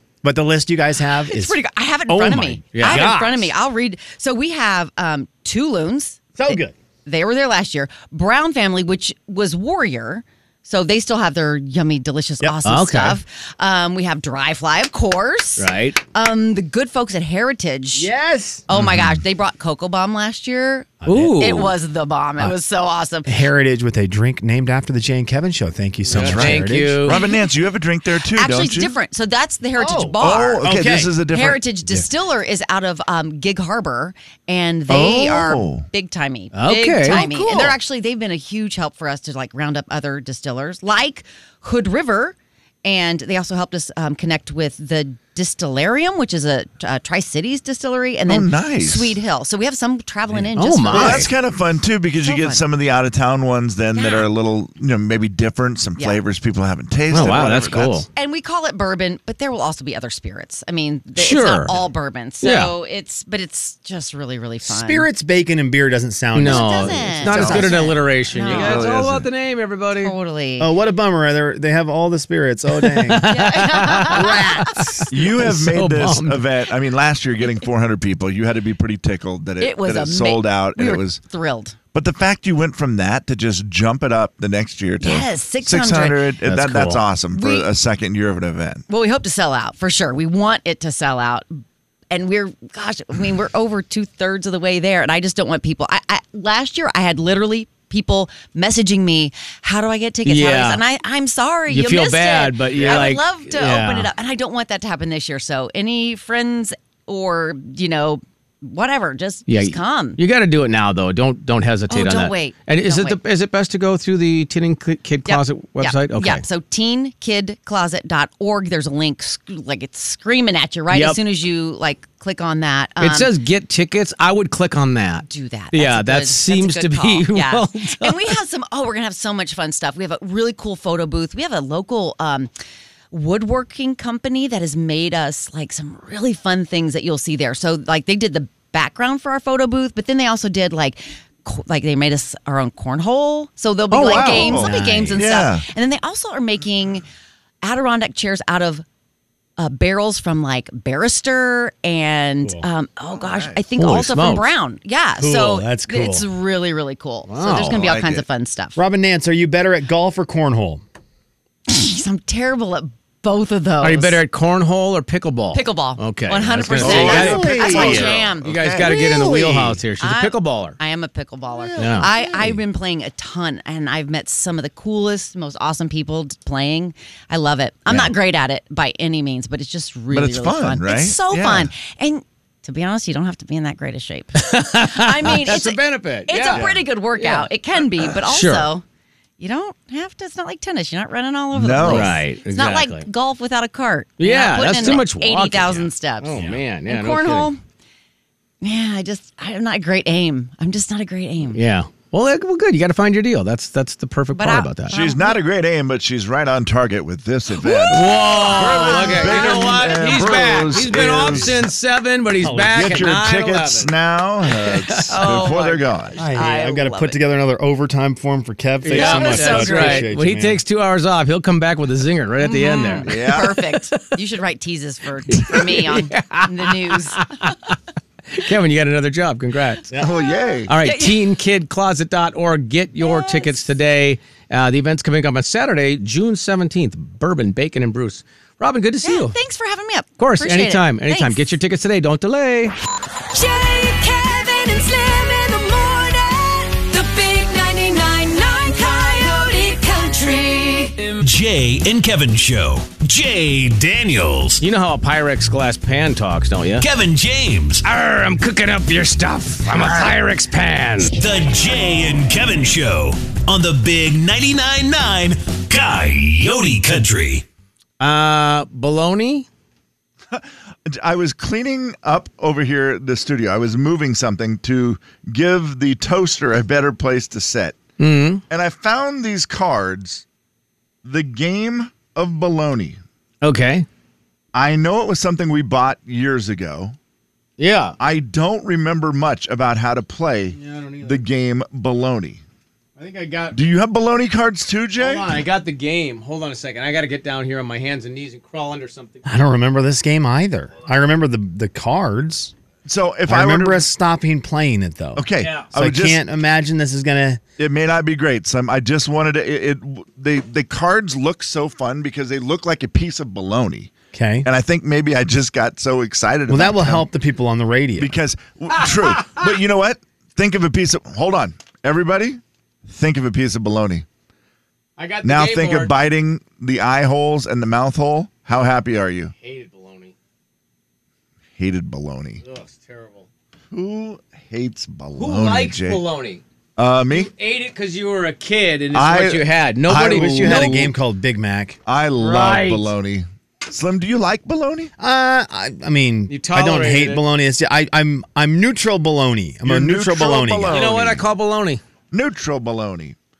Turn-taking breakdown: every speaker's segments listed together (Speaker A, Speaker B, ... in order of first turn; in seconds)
Speaker A: 0.2-3.5, 6.4-6.7, 17.9-18.6, 21.0-21.4, 23.3-27.0, 29.8-31.1, 37.1-37.8, 64.7-68.0, 70.6-75.1, 144.3-145.2, 155.2-156.3, 158.8-160.8, 167.0-167.9, 212.4-213.1, 216.2-220.6, 299.3-302.5, 303.3-307.4, 314.1-314.5, 316.5-318.1, 340.0-341.8, 345.0-350.8
Speaker B: 1.2-18.1, 18.7-23.3, 28.3-30.7, 31.2-51.3, 52.2-52.6, 54.0-54.3, 58.1-65.1, 66.4-68.8, 70.0-70.7, 73.2-75.0, 79.6-81.8, 85.0-86.3, 87.3-87.7, 88.9-110.2, 111.9-113.2, 115.3-123.3, 125.2-132.5, 133.1-147.1, 147.6-148.8, 149.6-158.8, 161.7-164.2, 165.5-168.5, 170.0-188.8, 189.4-197.6, 198.6-201.6, 204.3-205.4, 207.6-209.8, 215.1-217.2, 218.9-220.1, 222.4-227.3, 230.0-231.3, 233.0-233.7, 239.0-241.4
Speaker C: 2.7-3.1, 12.7-13.2, 15.6-16.0, 21.1-21.7, 26.1-27.2, 36.5-37.3, 50.5-51.3, 57.1-58.1, 61.2-61.8, 62.4-62.7, 66.3-70.1, 72.7-76.5, 86.5-87.0, 100.3-100.8, 101.7-104.1, 109.5-116.4, 120.9-121.2, 123.0-128.4, 143.9-144.6, 153.8-154.5, 157.3-157.8, 163.8-170.8, 171.8-172.1, 184.4-187.5, 188.1-188.7, 191.9-193.1, 194.2-197.5, 201.5-204.9, 207.9-213.9, 214.5-215.1, 218.8-224.0, 225.3-227.8, 228.3-229.9, 230.7-239.3, 240.2-242.8, 254.6-256.9, 257.8-261.2, 268.0-269.5, 278.0-278.4, 283.4-283.9, 287.6-288.0, 290.6-291.2, 293.0-293.6, 295.0-299.2, 305.4-305.7, 318.8-319.5, 325.0-325.9, 329.4-330.1, 332.4-333.3, 335.2-336.4, 337.1-340.9, 342.2-342.9, 346.3-347.2, 350.7-351.8
Speaker D: 18.7-19.2, 26.1-28.9, 30.2-31.6, 34.9-35.9, 48.3-49.2, 50.9-58.1, 67.3-67.6, 68.4-69.3, 75.1-81.2, 81.9-88.8, 102.7-103.1, 144.0-145.7, 153.1-153.7, 157.6-158.3, 166.8-169.8, 171.5-172.6, 180.1-181.7, 186.5-186.8, 191.5-192.2, 204.9-211.7, 212.7-216.2, 223.0-223.6, 229.9-230.7, 270.3-277.8, 278.5-280.2, 281.0-283.0, 284.5-287.0, 288.0-292.4, 293.5-295.4, 302.9-303.9, 305.1-306.2, 307.6-313.9, 314.4-317.1, 318.0-324.1, 325.2-329.3, 331.6-332.4, 333.7-336.0, 336.8-337.3, 338.9-340.9, 341.9-344.9, 349.6-351.3, 352.1-353.2
Speaker E: 243.3-251.2
Speaker F: 251.2-254.6, 256.8-257.9, 261.1-267.5